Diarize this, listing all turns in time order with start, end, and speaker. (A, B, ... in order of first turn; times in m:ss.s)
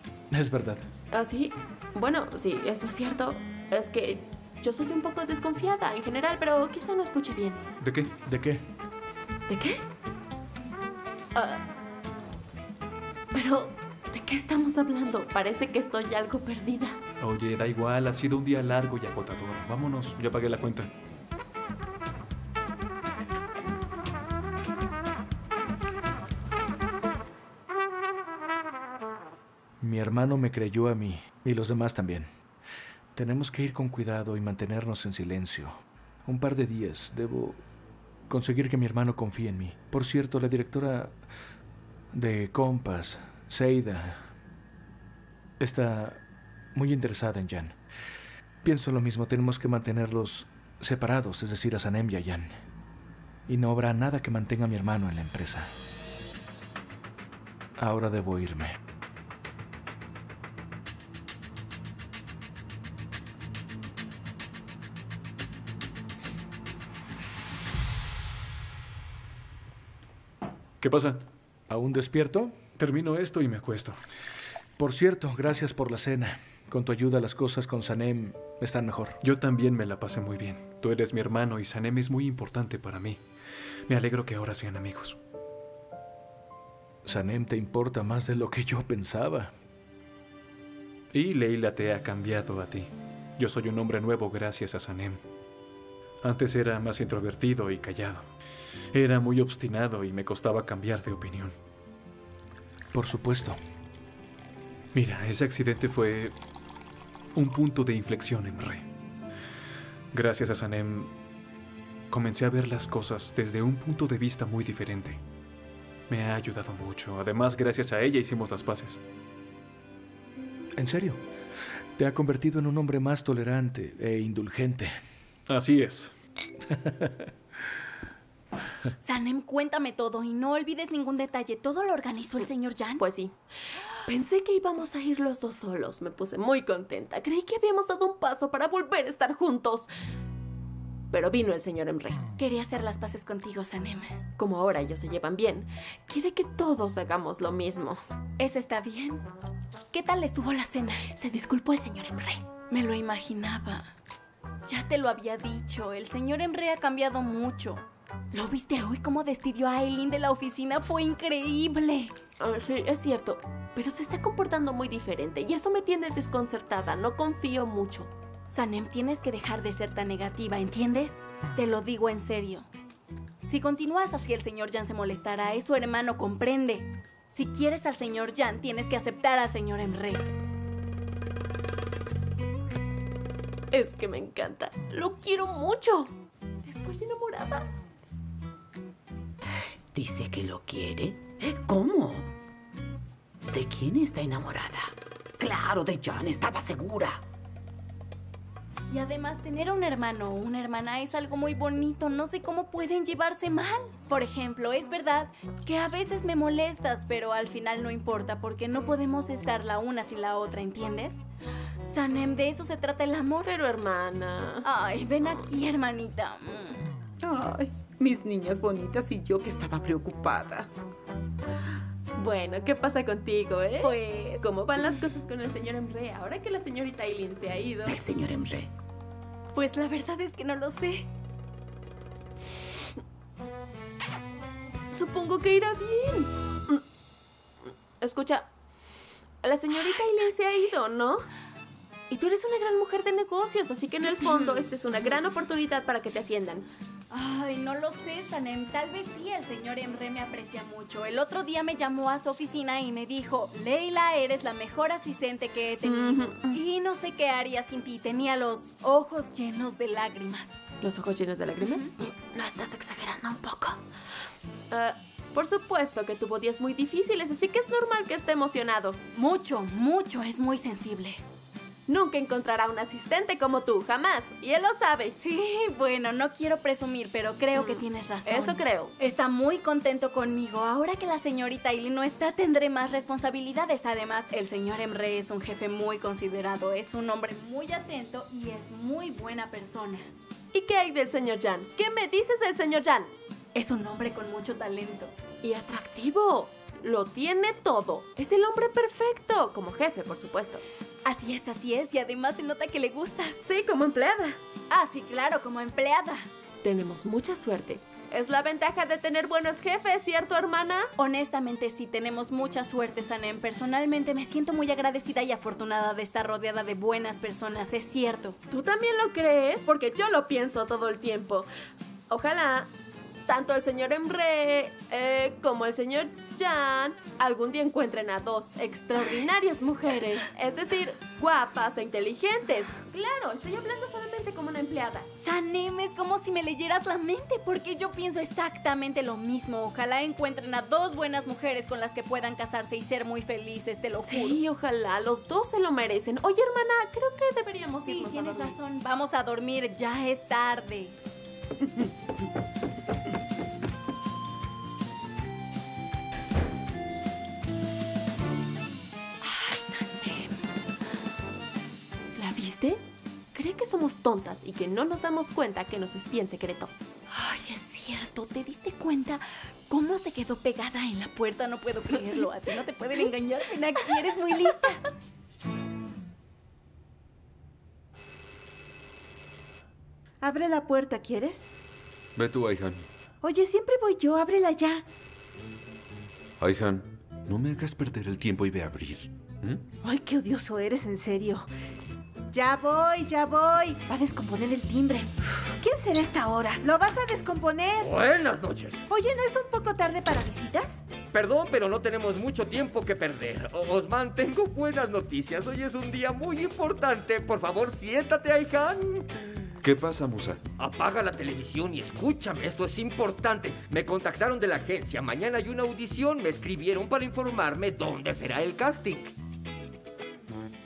0:00.3-0:00.9 A
0:01.1-0:07.6 B
0:07.8-0:08.1 C
0:08.2-0:08.6 A
0:09.5-0:09.8 B
0:11.4-0:11.6 B
0:13.3-0:17.0 B
0:17.2-0:20.9 C
0:29.8-0:32.3 A
0:33.1-0:37.6 A
0:38.3-0:41.2 A
0:42.1-0:44.3 A
0:45.6-0:46.2 A
0:46.7-0:47.8 A
0:48.6-0:52.6 A
0:53.5-0:55.7 A
0:57.8-0:58.8 A
1:10.8-1:11.2 C
1:11.7-1:12.6 A
1:12.8-1:14.0 C
1:14.8-1:19.2 A
1:19.2-1:23.2 C
1:23.9-1:25.2 C
1:27.0-1:29.5 A
1:31.1-1:35.2 C
1:36.2-1:38.3 C
1:38.9-1:41.6 C
1:42.9-1:43.6 A
1:44.9-1:46.3 C
1:47.4-1:48.9 C
1:50.1-1:51.1 C
1:52.1-1:55.2 C
1:56.1-1:59.0 C
2:00.8-2:01.2 A
2:02.0-2:04.9 A
2:05.5-2:06.1 C
2:06.7-2:07.1 A
2:09.0-2:13.0 D
2:13.0-2:13.3 B
2:14.1-2:19.9 B
2:21.1-2:22.3 B
2:22.4-2:24.2 D
2:24.4-2:28.0 B
2:28.4-2:29.2 D
2:29.9-2:31.2 D
2:31.2-2:32.4 B
2:32.7-2:33.9 D
2:34.7-2:42.1 D
2:42.4-2:48.1 B
2:48.5-2:52.7 D
2:53.4-3:00.2 D
3:03.7-3:06.1 B
3:06.6-3:07.7 B
3:09.9-3:12.3 E
3:13.5-3:17.2 E
3:18.9-3:31.2 D
3:31.8-3:33.5 D
3:33.4-3:34.7 B
3:34.6-3:36.8 D
3:37.2-3:40.7 F
3:42.2-3:48.0 B
3:43.8-3:44.4 D
3:47.9-3:48.7 E
3:49.5-3:51.1 D
3:54.9-3:56.8 B
3:57.6-3:58.5 B
3:59.4-4:01.2 B
4:02.1-4:06.7 B
4:04.0-4:04.7 D
4:07.1-4:20.6 D
4:15.8-4:16.6 B
4:20.8-4:23.8 B
4:21.6-4:21.9 D
4:24.7-4:29.0 B
4:29.1-4:31.2 D
4:31.9-4:35.2 B
4:35.2-4:50.1 D
4:37.6-4:38.9 B
4:50.5-4:53.1 B
4:53.6-4:55.1 D
4:55.4-5:00.6 B
5:01.0-5:03.4 D
5:03.4-5:04.4 B
5:04.7-5:06.3 D
5:06.6-5:10.9 B
5:11.0-5:18.4 D
5:18.5-5:21.5 B
5:22.1-5:22.7 B
5:23.2-5:35.1 B
5:35.2-5:44.4 D
5:44.0-5:48.6 B
5:47.8-5:51.0 D
5:59.2-6:00.3 D
6:02.2-6:02.8 B
6:03.3-6:06.7 B
6:07.1-6:14.8 D
6:20.2-6:21.5 G
6:22.2-6:22.9 H
6:23.2-6:24.8 G
6:26.4-6:29.6 H
6:29.8-6:31.5 G
6:32.3-6:37.9 G
6:37.8-6:38.8 I
6:38.9-6:40.8 G
6:41.1-6:49.1 I
6:49.6-6:50.4 H
6:50.6-6:59.1 I